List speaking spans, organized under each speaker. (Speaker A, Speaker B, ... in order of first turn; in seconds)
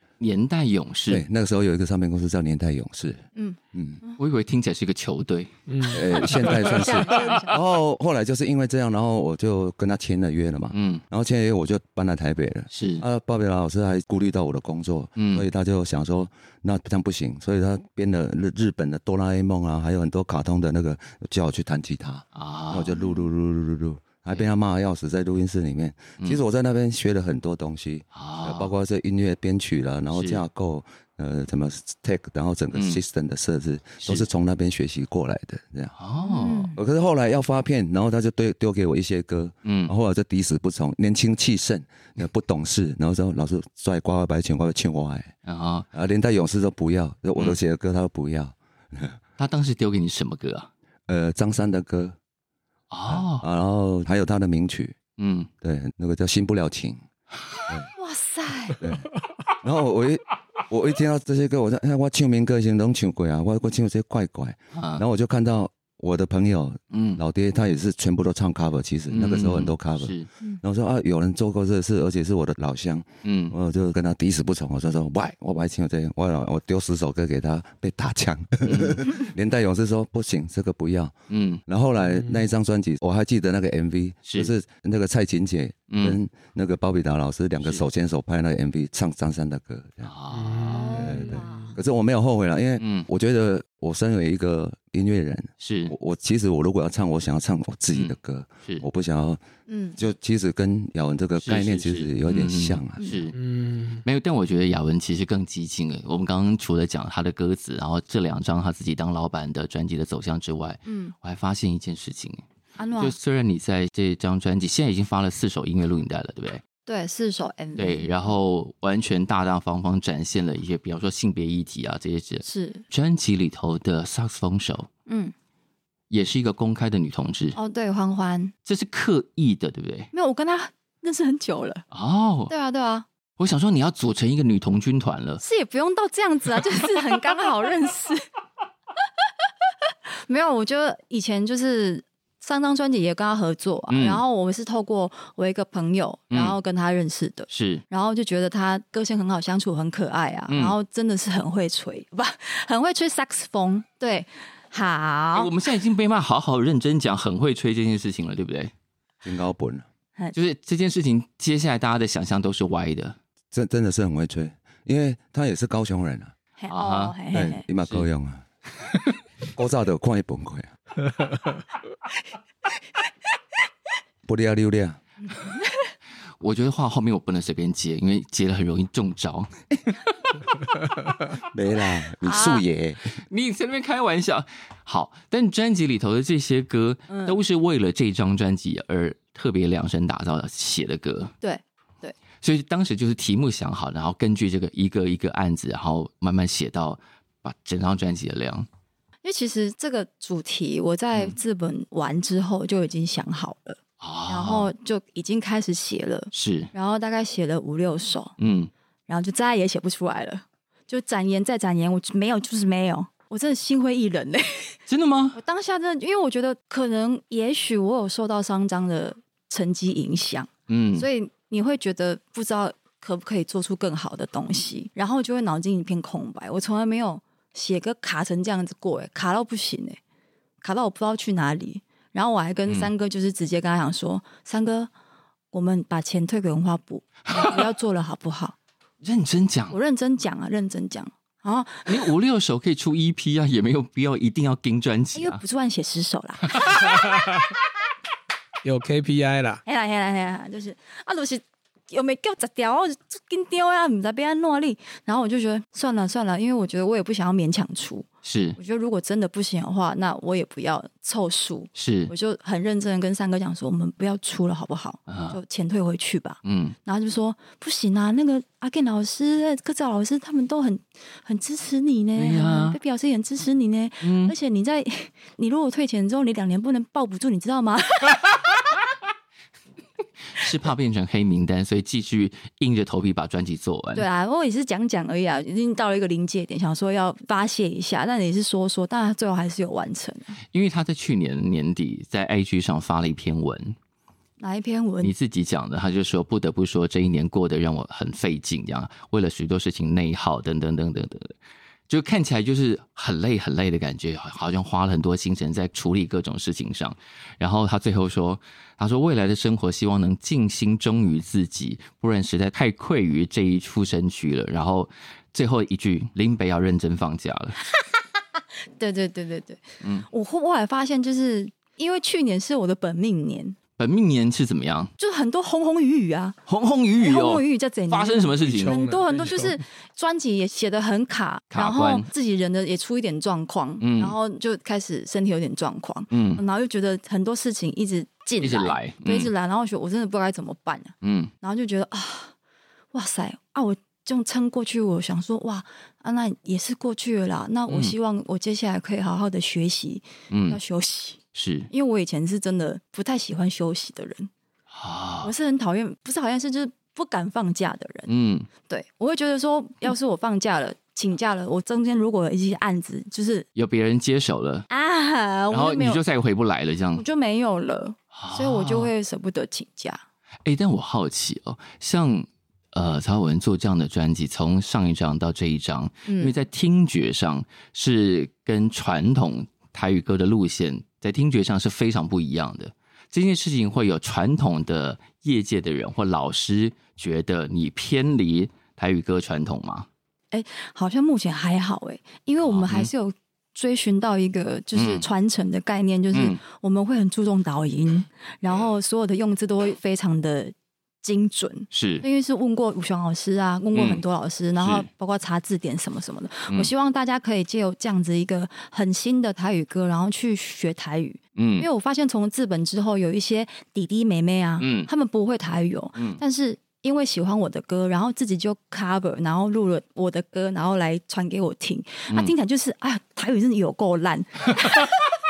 Speaker A: 0.2-1.2, 4.2-5.5, 10.7-11.0, 12.7-13.0, 15.2-15.4, 22.3-22.9, 28.1-28.7, 30.1-30.4, 32.7-33.0, 34.0-34.3, 36.0-36.7, 39.6-39.9, 45.4-45.9, 49.4-50.7, 52.9-53.4, 55.2-55.5, 64.7-65.0, 66.9-67.2, 69.1-70.3, 73.2-73.5, 78.6-79.0, 81.3-81.6, 84.2-84.5, 85.9-86.2, 90.0-91.1, 92.8-93.1, 95.6-95.9, 97.9-98.8, 101.4-103.4, 104.0-112.4, 113.0-116.6, 117.8-124.9, 126.1-127.6, 128.7-130.1, 131.9-132.5, 133.4-135.4, 143.9-144.2, 146.3-146.6, 147.5-147.8, 150.5-150.8, 155.3-158.7, 160.3-163.2, 166.7-167.2, 176.4-179.5, 183.2-191.3, 192.4-198.7, 204.0-204.7, 206.3-206.7, 208.4-208.7, 214.9-215.4, 220.7-221.1, 239.0-239.8, 241.9-245.4, 258.2-258.6, 261.7-262.1, 265.1-265.4, 266.4-266.8, 272.2-272.8, 274.0-274.3, 280.3-284.1, 290.5-293.8, 295.0-301.4, 301.9-317.6, 319.8-320.1, 323.8-324.9, 326.5-328.8, 331.5-332.1, 333.8-334.1, 336.1-336.4, 338.4-339.3, 341.0-341.3, 347.7-347.9, 350.3-350.6, 351.3-351.7, 354.7-355.3, 358.1-358.5, 363.5-364.7, 365.5-367.0, 368.1-368.9, 370.4-389.9, 392.4-392.9, 394.7-395.1, 396.1-396.4, 401.7-402.0, 403.7-404.0, 404.6-404.9, 411.4-411.7, 414.6-414.9
Speaker B: 1.1-4.0, 5.9-35.9, 36.7-45.3, 45.9-49.2, 51.1-52.1, 53.1-55.0, 55.6-57.0, 58.8-59.1, 59.6-81.1, 81.7-90.1, 90.9-99.4, 100.0-103.0, 159.2-159.8, 163.5-166.3, 167.3-168.4, 169.5-170.7, 174.2-175.0, 181.4-183.1
Speaker C: 3.3-4.2, 6.3-7.6, 22.9-23.2, 36.2-36.8, 57.9-58.8, 90.7-91.8, 99.7-100.0, 103.0-103.3, 110.8-111.1, 112.8-113.1, 116.8-118.2, 122.4-122.8, 125.1-125.3, 127.5-128.5, 130.1-131.8, 132.5-133.1, 135.4-138.2, 140.1-155.5, 166.6-167.6, 175.3-175.9, 182.2-182.6, 187.1-187.3, 191.4-192.2, 199.2-208.3, 209.1-214.8, 215.3-230.0, 230.6-234.9, 235.5-238.6, 239.7-242.1, 245.1-246.9, 249.6-278.7, 283.9-290.4, 294.4-295.1, 318.8-323.6, 325.0-326.4, 327.0-342.3, 342.9-354.3, 355.2-358.1, 358.7-363.4, 364.7-366.0, 366.9-370.0, 376.1-376.3, 390.3-425.1
Speaker D: 5.7-7.4, 82.1-82.4, 90.3-91.7, 103.3-104.0, 248.6-249.6, 328.4-329.6